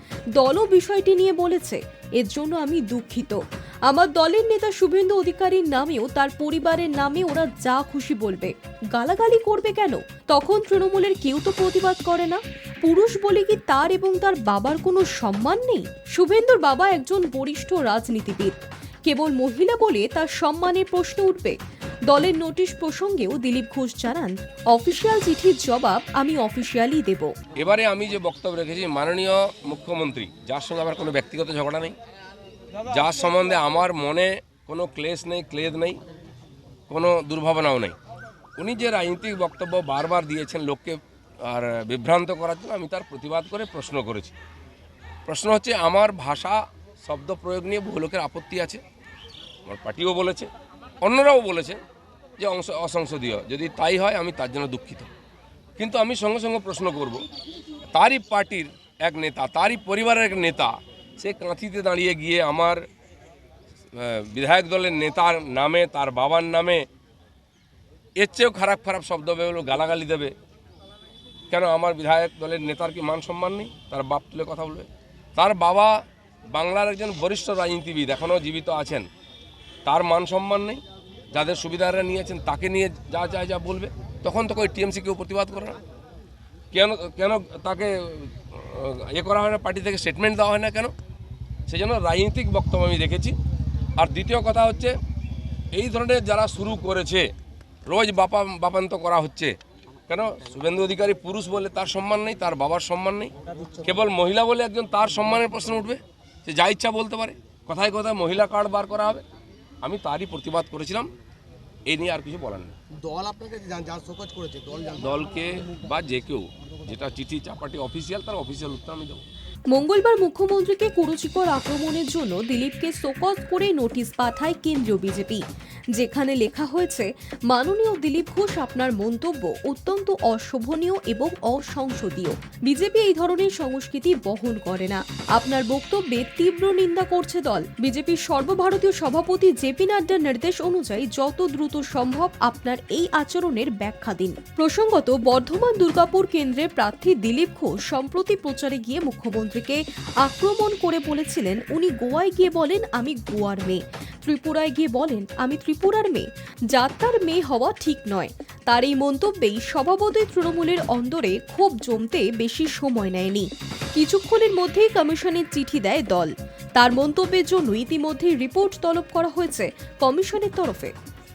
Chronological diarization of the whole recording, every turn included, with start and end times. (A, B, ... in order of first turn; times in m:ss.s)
0:00.3-0:21.6 A
0:22.1-0:27.3 A
0:27.6-0:31.9 B
0:32.9-0:36.0 B
0:36.9-0:37.9 B
0:38.6-0:44.3 B
0:45.3-0:48.8 B
0:49.7-0:50.5 B
0:51.0-0:51.8 B
0:52.4-0:55.1 B
0:55.8-0:57.2 B
0:57.9-1:02.8 B
1:03.9-1:06.8 B
1:08.2-1:10.3 B
1:11.5-1:16.0 B
1:16.5-1:19.0 B
1:19.8-1:20.8 B
1:21.3-1:25.8 B
1:26.7-1:30.9 B
1:31.7-1:33.4 B
1:34.0-1:35.0 B
1:35.7-1:37.3 B
1:37.9-1:39.5 B
1:40.1-1:49.2 B
1:43.4-1:43.9 C
1:49.8-1:51.1 B
1:51.9-1:52.7 B
1:53.0-1:55.0 C
1:55.0-1:59.2 B
1:59.7-2:05.4 A
2:05.9-2:50.9 A